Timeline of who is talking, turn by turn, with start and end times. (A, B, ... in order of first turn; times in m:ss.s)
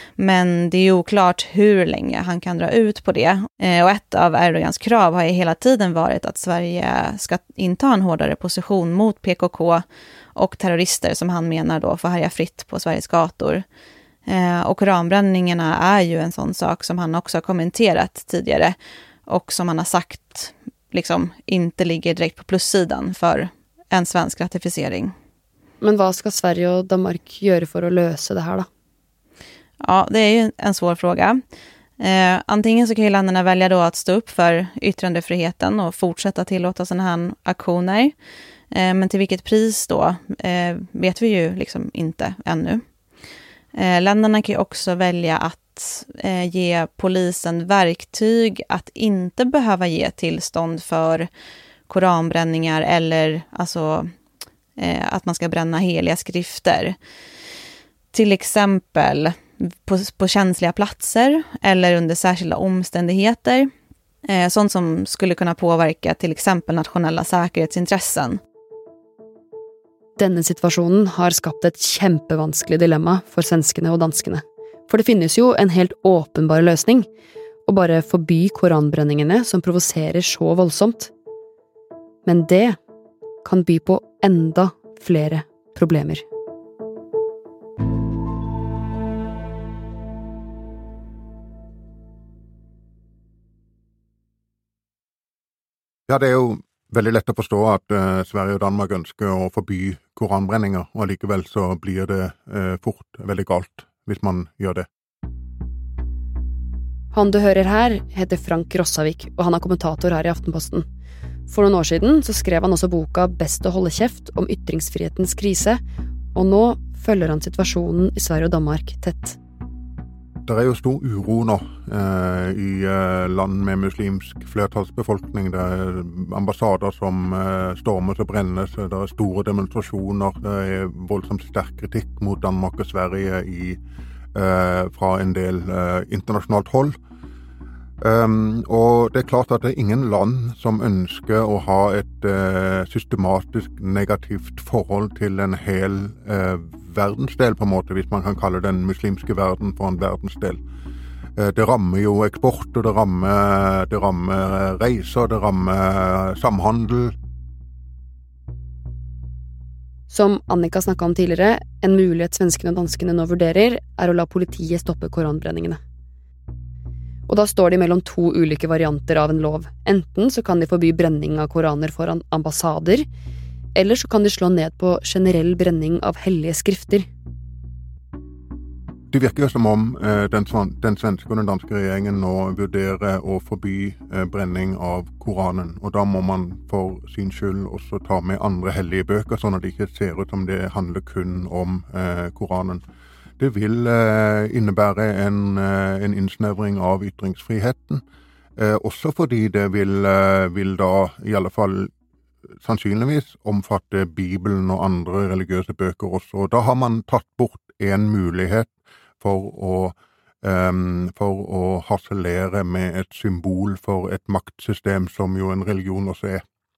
0:00.2-0:09.8 A
0:10.4-0:13.6 A
0:14.3-0:18.7 A
0:19.3-0:25.1 A
0:25.8-0:28.7 B
0:29.8-0:31.4 A
0:32.0-0:38.1 A
0:38.7-0:42.8 A
0:43.7-0:51.3 A
0:51.9-0:54.1 A
0:54.8-0:57.0 A
0:58.1-1:03.7 A
1:04.3-1:08.4 A
1:10.2-1:17.1 B
1:17.6-1:21.1 B
1:22.2-1:22.8 B
1:23.4-1:26.2 B
1:36.1-1:44.8 C
1:47.1-1:50.8 B
1:51.5-1:55.8 B
1:56.3-1:59.4 B
2:00.4-2:13.8 C
2:14.3-2:16.9 C
2:18.0-2:30.6 C
2:31.4-2:37.1 C
2:40.1-2:45.8 B
2:47.3-2:53.0 B
2:53.7-2:57.0 B
2:59.1-3:12.8 C
3:13.4-3:18.0 C
3:18.6-3:21.9 C
3:22.6-3:36.4 C